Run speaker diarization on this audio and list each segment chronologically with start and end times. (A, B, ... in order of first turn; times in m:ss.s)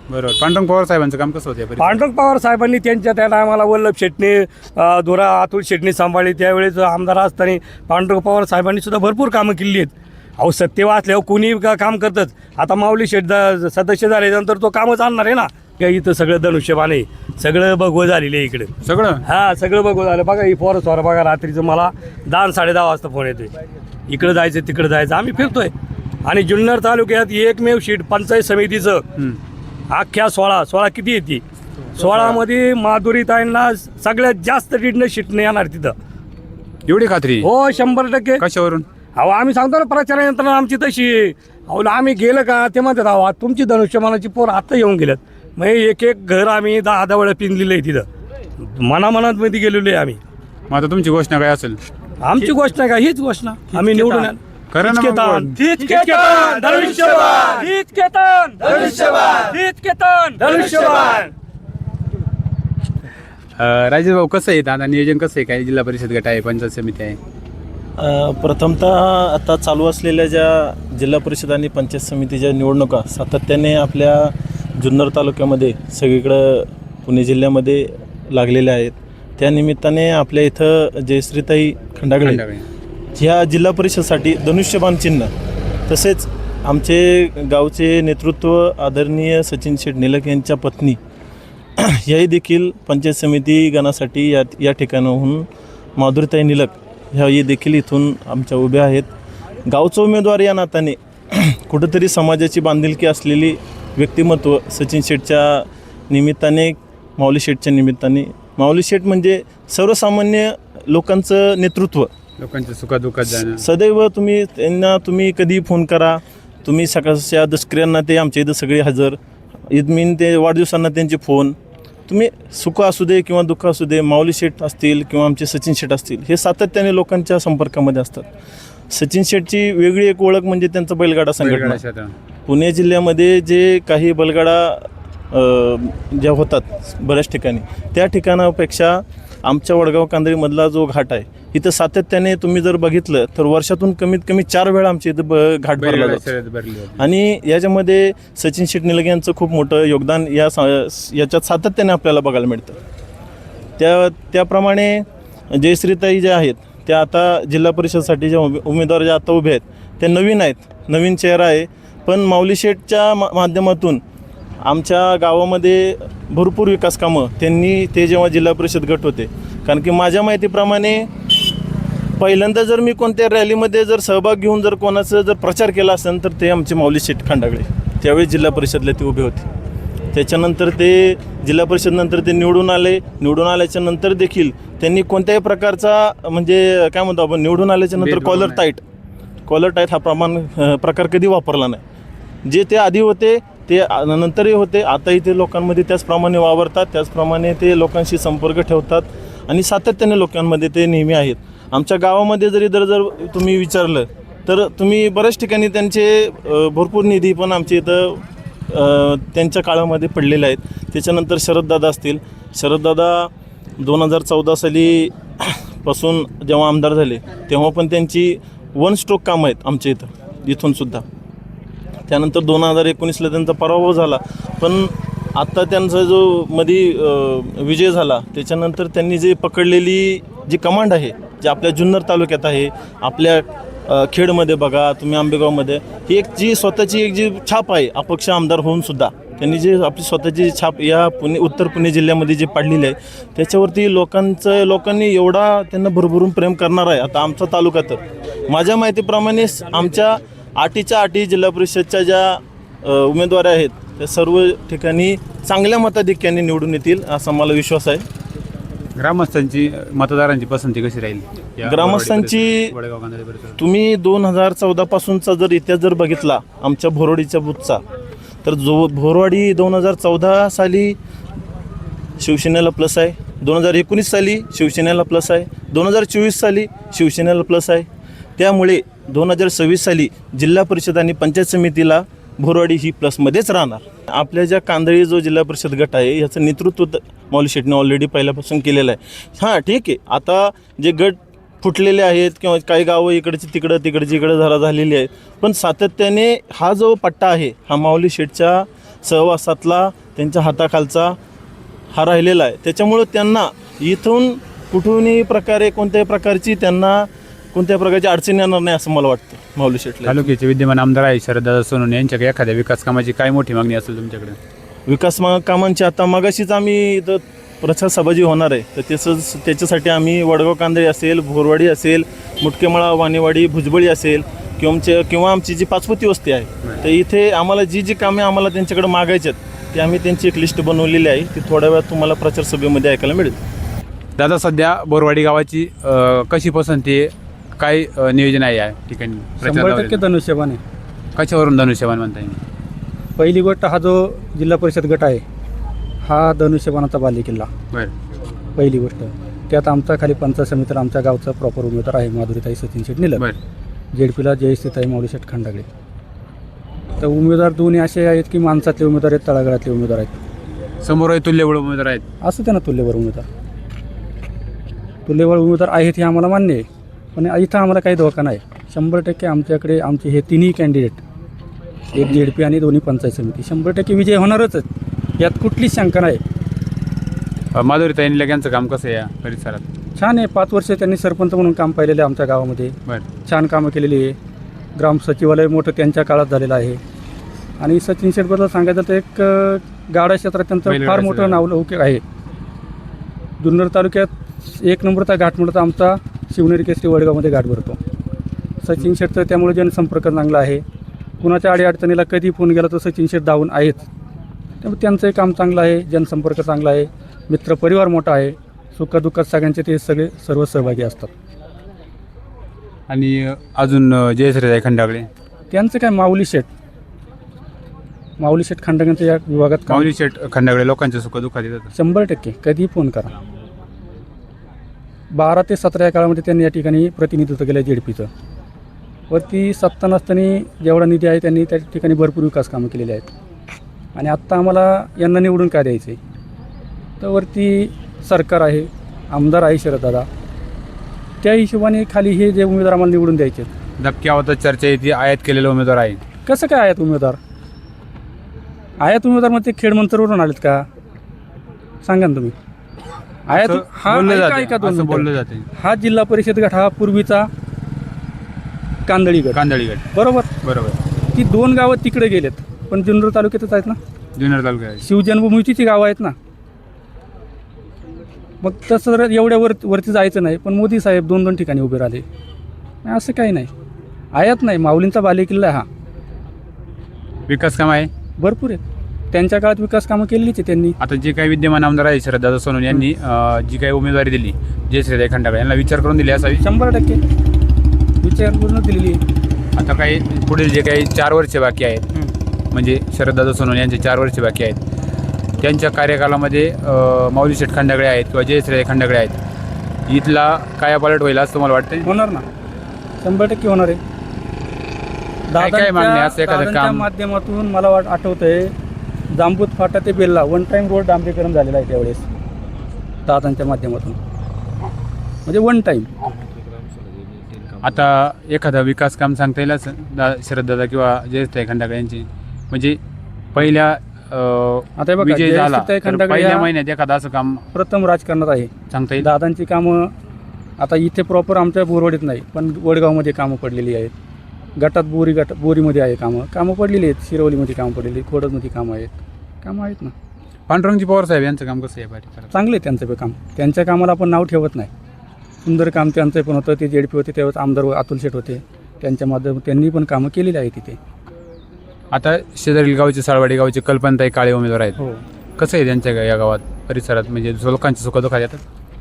0:00.1-0:02.1 A
0:01.8-0:18.7 B
0:18.8-0:19.2 A
0:19.3-0:23.5 B
0:24.1-0:25.7 B
0:26.3-0:29.0 B
0:29.9-0:31.4 B
0:32.0-0:32.4 A
0:32.0-0:35.9 B
0:36.9-0:37.5 A
0:37.4-0:38.4 B
0:38.4-0:38.9 A
0:39.2-0:48.0 B
0:48.8-0:50.2 B
0:50.7-0:51.8 A
0:52.3-0:54.4 B
0:53.7-0:55.6 A
0:54.9-1:01.3 B
1:03.6-1:07.2 A
1:08.0-1:22.4 C
1:22.2-1:22.7 A
1:23.2-1:25.3 C
1:25.9-1:31.0 C
1:31.8-1:35.5 C
1:36.0-1:39.1 C
1:39.7-1:52.1 C
1:52.4-1:53.6 A
1:53.4-1:59.2 C
1:59.7-2:01.6 C
2:02.1-2:08.3 C
2:08.9-2:11.8 C
2:11.4-2:12.2 A
2:12.5-2:26.3 C
2:25.8-2:27.0 A
2:27.0-2:32.8 C
2:33.8-2:44.0 C
2:44.6-2:51.1 C
2:52.2-2:59.5 C
3:00.1-3:08.8 C
3:08.0-3:08.6 A
3:09.5-3:11.8 C
3:12.5-3:41.0 C
3:42.1-4:18.0 C
4:19.0-4:23.6 A
4:21.6-4:22.8 C
4:23.6-4:27.8 C
4:28.4-4:31.0 C
4:32.2-4:37.9 C
4:38.4-5:01.2 C
5:01.9-5:10.3 C
5:10.1-5:14.4 A
5:14.9-5:33.4 C
5:34.2-5:40.0 A
5:39.4-5:40.6 D
5:41.2-5:42.4 A
5:43.2-5:45.2 D
5:46.0-5:47.5 D
5:48.6-5:53.2 D
5:53.9-5:55.7 D
5:57.0-6:00.2 D
6:00.8-6:02.0 A
6:02.2-6:03.2 D
6:05.1-6:06.6 D
6:07.2-6:11.0 D
6:11.9-6:14.7 D
6:15.2-6:16.2 D
6:17.6-6:19.6 A
6:20.0-6:24.2 D
6:24.8-6:26.8 D
6:27.6-6:32.0 D
6:30.7-6:31.4 A
6:33.4-6:37.8 D
6:38.6-6:40.6 D
6:41.2-6:43.9 D
6:44.6-6:51.1 D
6:52.9-6:55.1 A
6:55.5-6:56.5 D
6:58.2-6:59.9 D
6:59.7-7:01.7 A
7:01.7-7:03.1 D
7:05.2-7:08.1 D
7:09.1-7:13.1 D
7:14.0-7:16.0 D
7:17.0-7:20.1 D
7:21.2-7:23.5 D
7:23.8-7:26.0 A
7:26.3-7:27.2 D
7:28.8-7:30.6 D
7:31.8-7:32.3 D
7:33.3-7:37.3 D
7:33.3-7:35.4 A
7:38.9-7:39.4 D
7:39.3-7:39.8 A
7:39.9-7:40.3 D
7:40.4-7:40.8 A
7:41.1-7:43.8 D
7:44.2-7:44.8 A
7:44.8-7:46.2 D
7:48.4-7:52.0 D
7:52.8-7:53.5 D
7:54.1-7:55.7 D
7:57.3-7:57.9 A
7:58.2-7:58.6 D
7:59.1-8:00.8 D
8:00.8-8:06.4 A
8:06.4-8:07.0 D
8:08.0-8:09.0 D
8:09.6-8:11.8 A
8:12.5-8:14.6 A
8:15.4-8:19.2 A
8:19.9-8:21.9 A
8:21.9-8:22.2 D
8:23.0-8:23.8 D
8:25.3-8:28.5 D
8:25.4-8:26.9 A
8:29.2-8:32.0 D
8:33.1-8:34.0 D
8:35.3-8:35.9 D
8:37.6-8:42.8 A
8:43.4-8:47.4 A
8:44.8-8:46.5 D
8:47.5-8:49.9 D
8:48.7-8:49.1 A
8:50.6-8:53.9 D
8:54.6-8:59.9 D
9:00.5-9:02.3 A
9:02.3-9:04.7 D
9:05.4-9:10.8 D
9:11.9-9:14.8 A
9:15.4-9:18.4 A